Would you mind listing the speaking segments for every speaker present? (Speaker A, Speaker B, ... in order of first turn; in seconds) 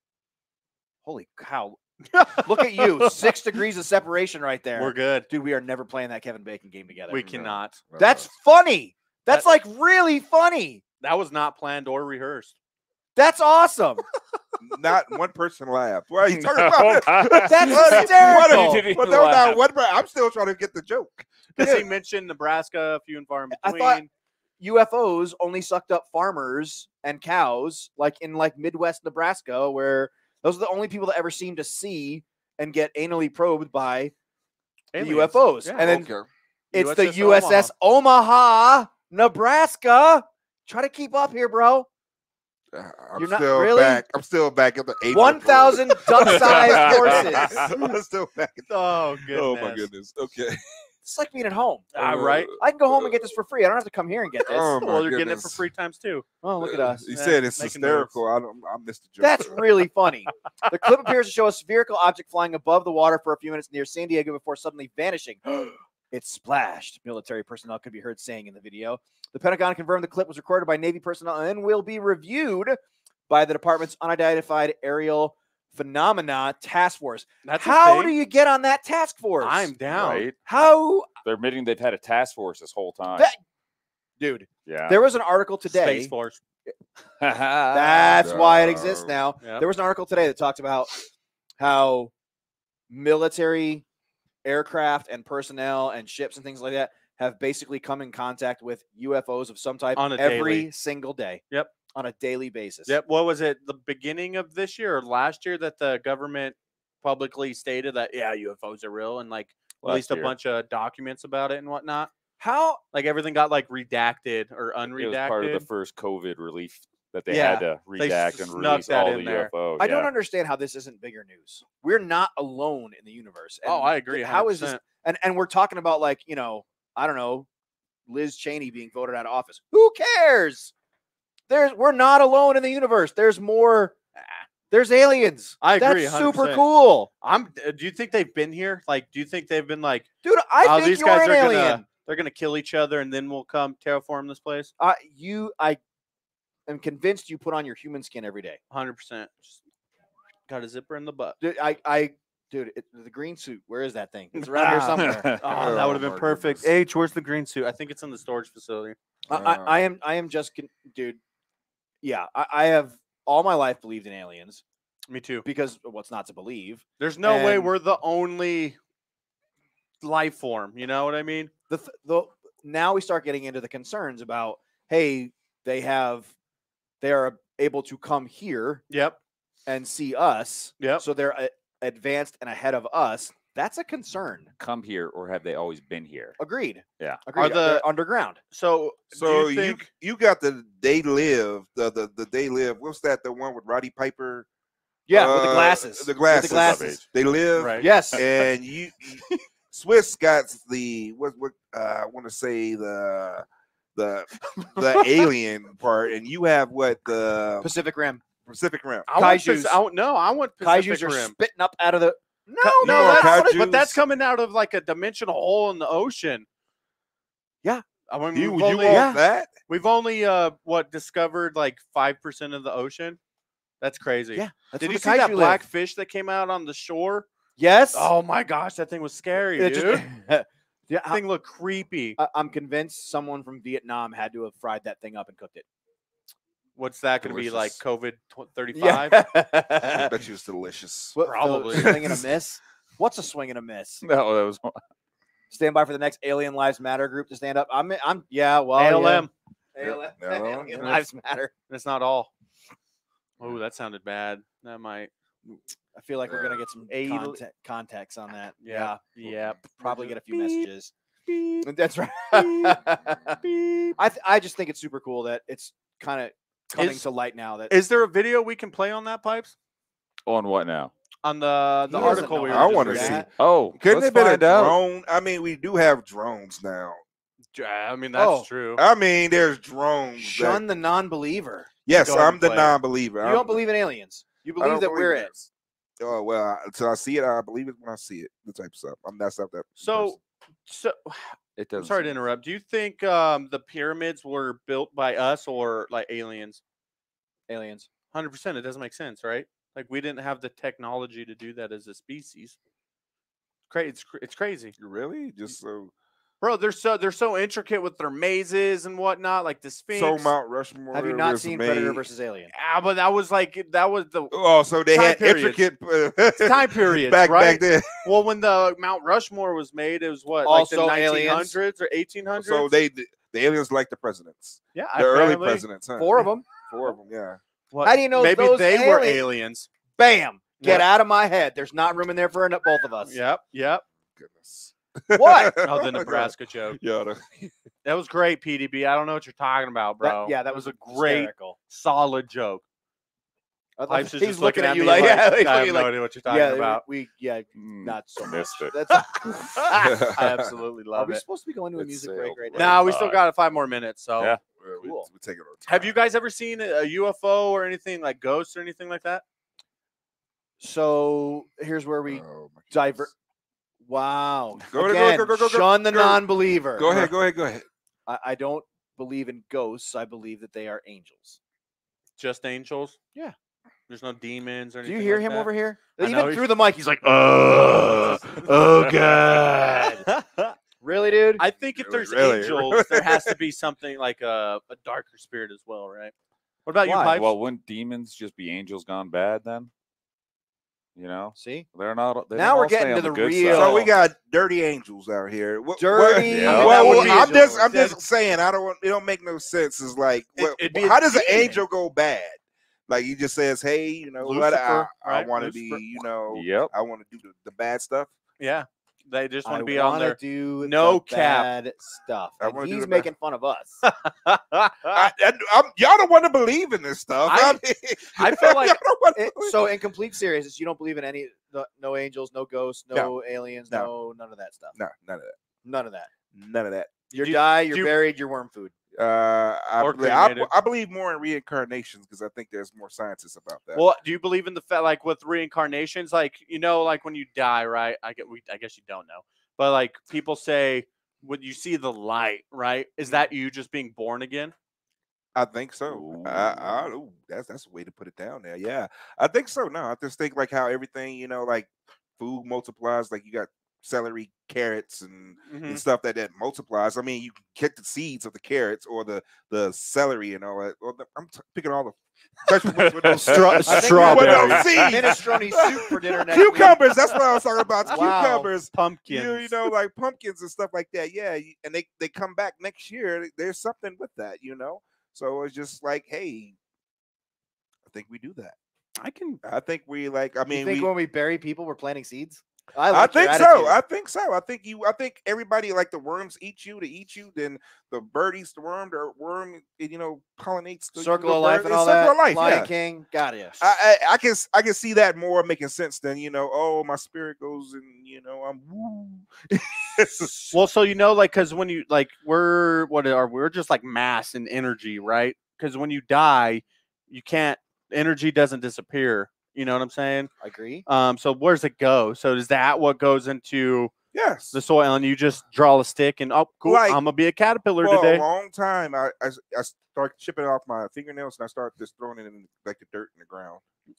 Speaker A: 1.1-1.8, 2.4-10.8, 13.2-14.0, 17.4-18.9, 23.5-24.0, 24.6-34.1, 35.0-36.1, 36.7-41.9, 43.2-44.0, 45.1-47.7, 51.0-51.9, 52.6-54.7, 56.4-57.1, 59.2-72.8, 73.3-79.7, 80.5-81.1, 83.1-83.4, 84.2-86.1, 87.7-90.9, 91.6-92.1, 92.9-93.8, 94.5-103.0, 112.4-112.8, 119.8-127.5, 128.1-130.7, 131.5-137.1, 140.2-141.8, 144.8-145.8, 146.7-148.6, 151.4-155.3, 159.3-161.2, 162.0-164.6, 165.4-167.7, 171.7-176.3, 177.0-178.8, 179.7-184.5, 186.4-188.4, 195.1-197.0, 197.8-198.2, 204.8-205.1, 207.6-208.2, 209.2-209.8, 210.6-213.6, 218.8-219.2, 224.3-225.6, 227.6-228.1, 229.6-231.2, 232.2-235.7, 238.7-240.1, 241.2-244.0, 245.5-251.5, 255.9-259.0, 259.7-260.9, 261.6-263.4, 264.0-267.8, 271.9-273.3, 278.1-278.5, 280.2-285.3, 297.5-297.9, 310.9-312.5, 320.4-321.5, 326.0-326.5, 327.8-329.2, 330.0-333.2, 335.1-335.6, 340.0-341.6, 343.8-349.8, 350.9-352.9, 354.8-355.1, 360.6-363.1, 363.8-367.1, 368.1-371.4, 374.8-380.1, 380.8-381.4, 386.8-387.2, 391.4-391.7, 392.3-393.8, 395.8-398.0, 409.4-413.8, 419.2-424.7, 425.6-426.1, 427.1-428.7, 463.1-466.8, 480.5-483.8, 491.0-493.6, 510.4-510.9
Speaker B: 2.1-3.1, 4.8-5.3, 7.1-7.8, 11.0-12.5, 21.6-24.1, 34.9-36.0, 36.7-37.7, 48.7-49.9, 51.9-52.5, 54.5-56.2, 57.1-58.1, 77.5-78.2, 79.4-80.3, 85.7-86.4, 100.0-100.7, 102.9-112.1, 112.9-115.7, 117.3-119.5, 123.7-124.8, 135.6-136.6, 137.2-140.1, 140.6-144.7, 148.7-149.6, 150.5-151.4, 154.4-159.0, 165.1-165.5, 167.0-168.8, 170.0-171.5, 178.9-179.2, 180.8-181.0, 187.4-187.8, 188.5-189.8, 197.6-197.9, 209.1-211.3, 212.6-216.5, 218.1-219.1, 219.7-223.2, 223.8-227.3, 227.9-230.1, 231.1-232.2, 236.8-239.2, 241.2-242.0, 248.8-249.3, 251.7-252.3, 253.4-255.1, 256.9-257.4, 258.6-260.6, 261.3-261.6, 266.8-267.0, 267.7-269.5, 271.2-273.2, 277.5-278.8, 289.8-290.2, 290.7-296.6, 298.1-302.6, 303.7-304.8, 306.4-310.3, 312.5-314.3, 314.9-315.6, 316.4-322.7, 324.7-325.7, 327.7-329.7, 330.6-330.9, 333.0-333.8, 335.6-336.8, 337.9-342.6, 343.9-346.8, 349.9-351.2, 352.6-354.4, 355.7-359.2, 372.2-373.0, 373.9-376.5, 380.1-380.5, 381.4-386.1, 386.7-387.3, 396.7-397.9, 400.4-401.6, 404.2-405.8, 408.4-411.5, 413.8-414.9, 417.3-417.6, 418.2-418.8, 427.1-427.9, 429.8-430.5, 433.8-444.5, 455.5-455.8, 463.3-464.6, 467.9-469.5, 479.0-479.4, 500.5-510.3, 510.9-513.9, 514.5-518.2
Speaker C: 7.8-8.3, 14.6-21.9, 35.8-36.3, 42.7-50.6, 52.0-53.3, 54.4-55.6, 56.6-59.8, 88.2-89.2, 155.4-156.7, 159.3-159.8, 189.1-194.5, 195.1-207.7, 208.4-209.1, 212.8-214.0, 218.3-219.6, 237.2-237.8, 239.8-241.2, 241.7-242.0, 249.8-251.0, 256.3-256.6, 259.2-259.5, 272.0-277.0, 278.8-280.6, 281.9-283.6, 284.6-285.5, 286.0-290.2, 304.8-305.9, 309.9-312.0, 314.3-318.1, 322.3-327.4, 334.2-337.5, 349.8-350.6, 352.0-352.9, 354.5-356.0, 362.1-362.8, 364.7-366.2, 366.8-367.7, 381.7-383.4, 393.5-408.1, 412.4-413.1, 414.9-419.6, 424.8-425.4, 426.3-427.1, 428.9-433.9, 445.4-465.6, 466.2-476.6, 477.9-478.6, 479.4-480.9, 482.9-492.7, 493.6-500.6, 514.1-514.6, 516.6-517.0, 517.8-523.6
Speaker D: 16.3-19.6, 46.1-47.7, 79.9-80.4, 81.2-83.3, 84.7-85.0, 87.2-88.3, 109.8-110.3, 114.9-120.1, 155.0-155.4, 184.6-186.4, 196.3-197.0, 244.0-244.8, 270.3-270.9, 273.4-274.8, 291.6-292.1, 347.6-348.8, 351.8-353.2, 387.1-389.7, 391.0-393.9, 396.2-397.1, 406.3-406.7, 445.9-446.9, 462.7-465.4